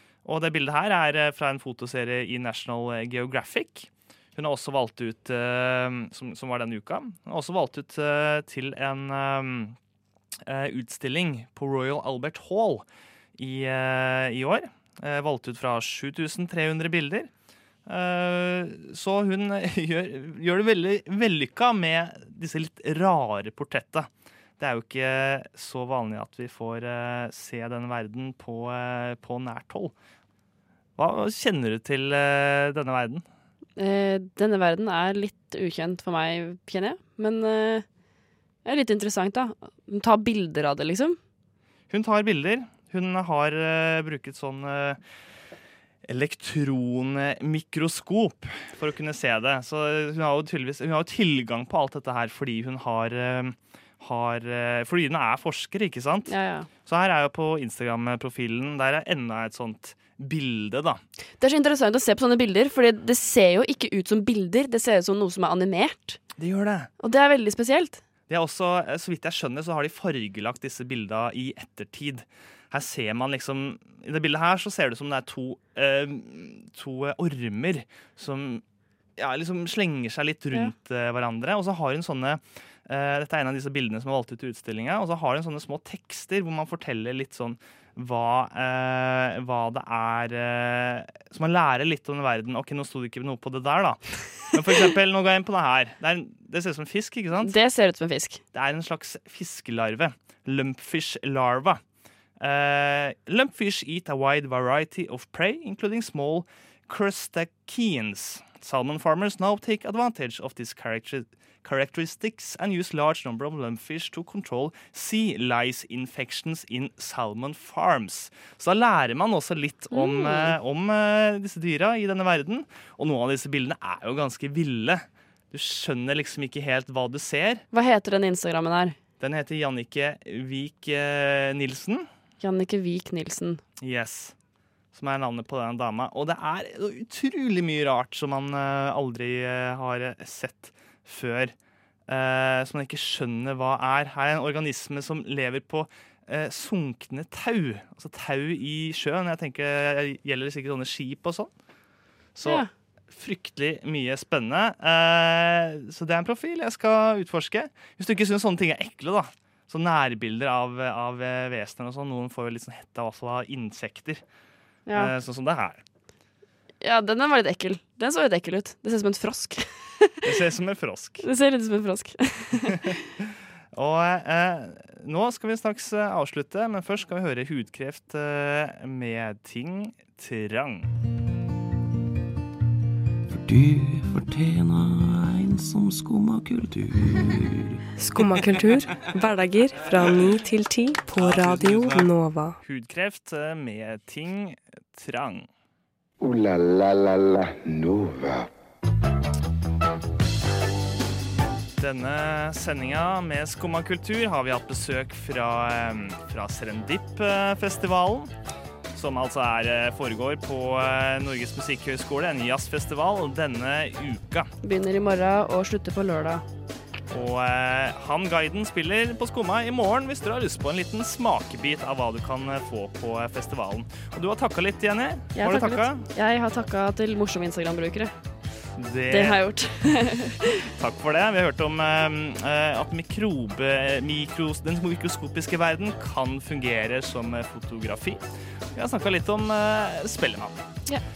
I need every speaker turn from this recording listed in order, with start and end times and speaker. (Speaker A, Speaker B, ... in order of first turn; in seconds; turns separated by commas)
Speaker A: 0.2-9.8, Speaker A: 10.5-12.8, Speaker A: 13.4-17.3, Speaker A: 17.9-29.9, Speaker A: 31.0-33.2, Speaker B: 33.8-37.8, Speaker B: 38.6-41.2, Speaker A: 41.9-45.0, Speaker A: 46.0-56.3, Speaker B: 56.3-56.7, Speaker A: 56.8-61.0, Speaker B: 61.4-66.2, Speaker A: 66.4-66.9, Speaker B: 67.0-68.0, Speaker A: 68.3-78.6, Speaker A: 79.2-97.5, Speaker B: 97.4-98.4, Speaker A: 98.5-101.8, Speaker A: 102.4-127.6, Speaker B: 119.9-120.5, Speaker B: 127.7-128.9, Speaker A: 129.2-132.1, Speaker B: 132.4-133.6, Speaker A: 133.8-134.3, Speaker A: 134.9-141.5, Speaker A: 142.1-151.5, Speaker A: 152.3-164.2, Speaker A: 164.9-165.8, Speaker B: 166.8-170.2, Speaker A: 170.2-171.2, Speaker B: 171.2-172.9, Speaker A: 173.7-180.9, Speaker C: 183.3-188.5, Speaker D: 188.0-192.6, Speaker C: 191.1-192.1, Speaker A: 192.6-195.5, Speaker E: 196.2-198.5, Speaker A: 201.8-208.3, Speaker A: 208.9-214.5, Speaker B: 214.6-216.4, Speaker A: 217.1-226.1, Speaker B: 225.3-228.1, Speaker A: 228.8-229.4, Speaker B: 229.1-230.7, Speaker A: 230.8-238.2, Speaker A: 238.7-240.6